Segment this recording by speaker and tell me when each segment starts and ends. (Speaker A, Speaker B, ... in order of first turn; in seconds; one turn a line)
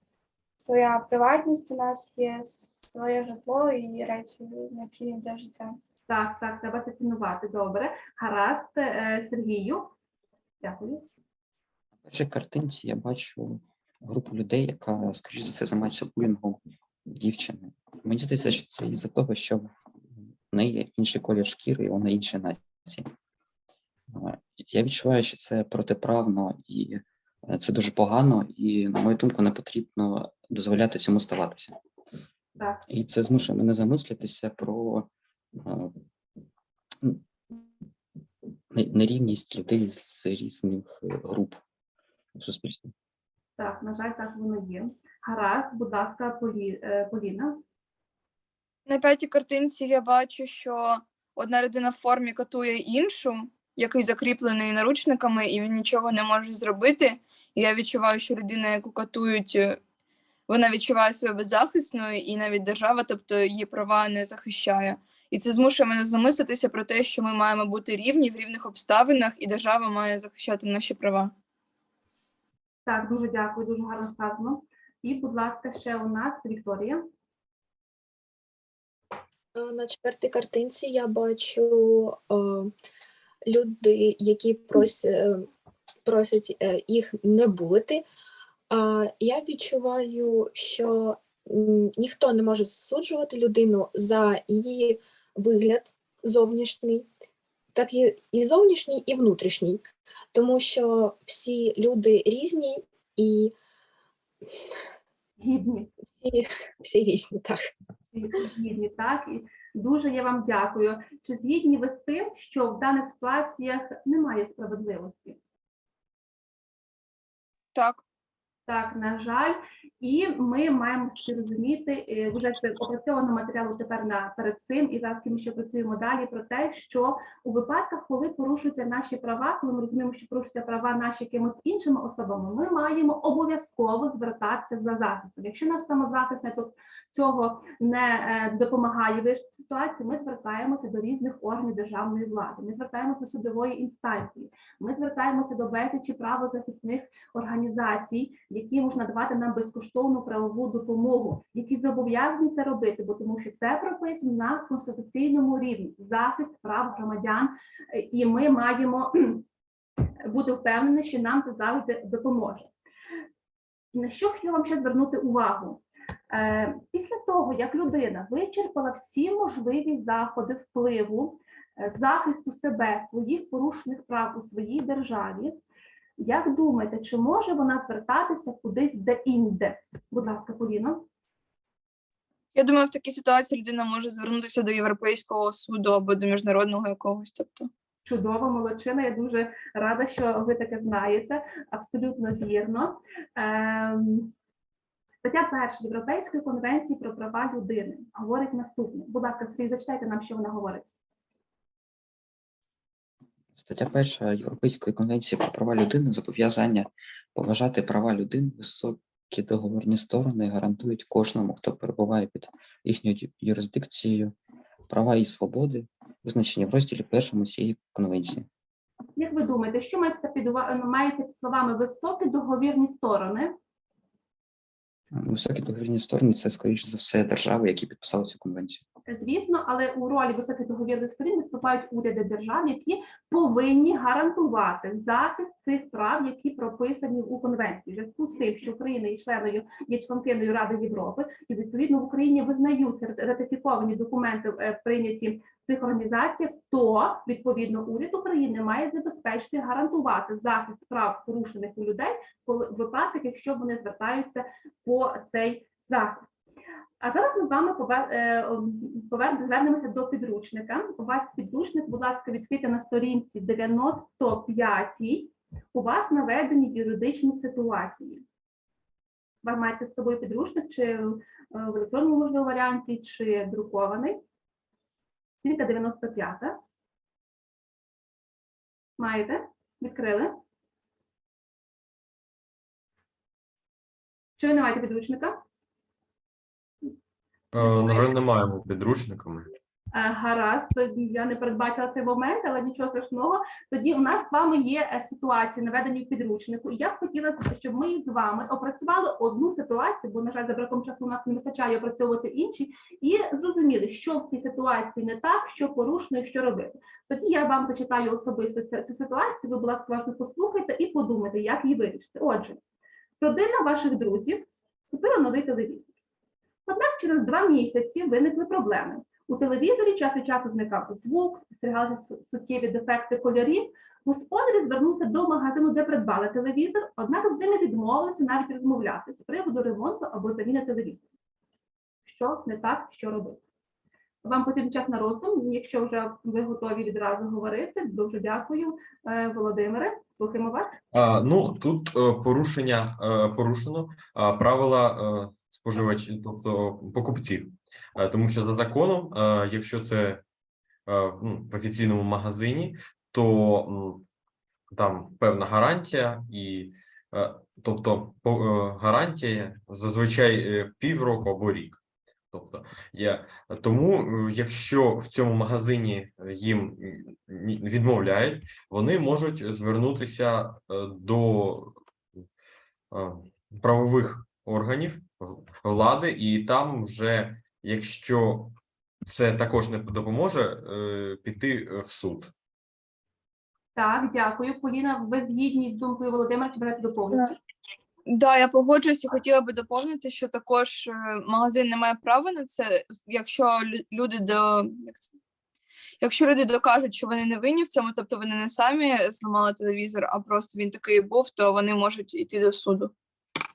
Speaker A: 0.6-5.8
Speaker B: 6.1-9.9
Speaker B: 10.6-11.0
Speaker C: 12.0-19.7
Speaker C: 20.5-23.1
Speaker C: 24.1-31.8
Speaker B: 32.6-32.8
Speaker C: 32.9-35.9
Speaker C: 37.0-37.7
Speaker C: 38.7-41.6
Speaker C: 42.4-42.9
Speaker B: 43.6-47.6
Speaker D: 48.9-59.8
Speaker D: 60.5-71.3
Speaker B: 72.9-77.0
Speaker E: 79.5-82.7
Speaker E: 83.5-85.5
Speaker E: 86.0-88.0
Speaker E: 88.7-97.1
Speaker E: 97.7-103.5
Speaker B: 105.4-105.9
Speaker E: 106.2-107.7
Speaker B: 108.1-115.4
Speaker D: 117.8-118.0
Speaker B: 118.7-159.4
Speaker B: 160.2-162.7
Speaker B: 163.9-175.6
Speaker B: 176.2-181.1
Speaker D: 182.6-187.7
Speaker B: 188.1-194.3
Speaker B: 195.2-200.9
Speaker C: 203.6-214.3
Speaker C: 214.9-218.5
Speaker B: 219.2-223.5
Speaker C: 225.1-228.8
Speaker B: 229.1-256.3
Speaker B: 257.0-268.2
Speaker B: 269.4-274.2
Speaker B: 275.4-276.6
Speaker B: 279.0-280.4
Speaker B: 284.4-285.4
Speaker F: 287.5-289.5
Speaker B: 289.9-312.6
Speaker B: 313.2-315.9
Speaker B: 316.7-331.1
Speaker B: 332.1-333.4
Speaker B: 334.2-340.8
Speaker F: 340.9-350.2
Speaker F: 350.9-354.1
Speaker F: 354.7-361.8
Speaker F: 362.3-371.8
Speaker F: 372.9-382.3
Speaker B: 383.8-387.3
Speaker D: 388.1-395.1
Speaker D: 396.0-402.9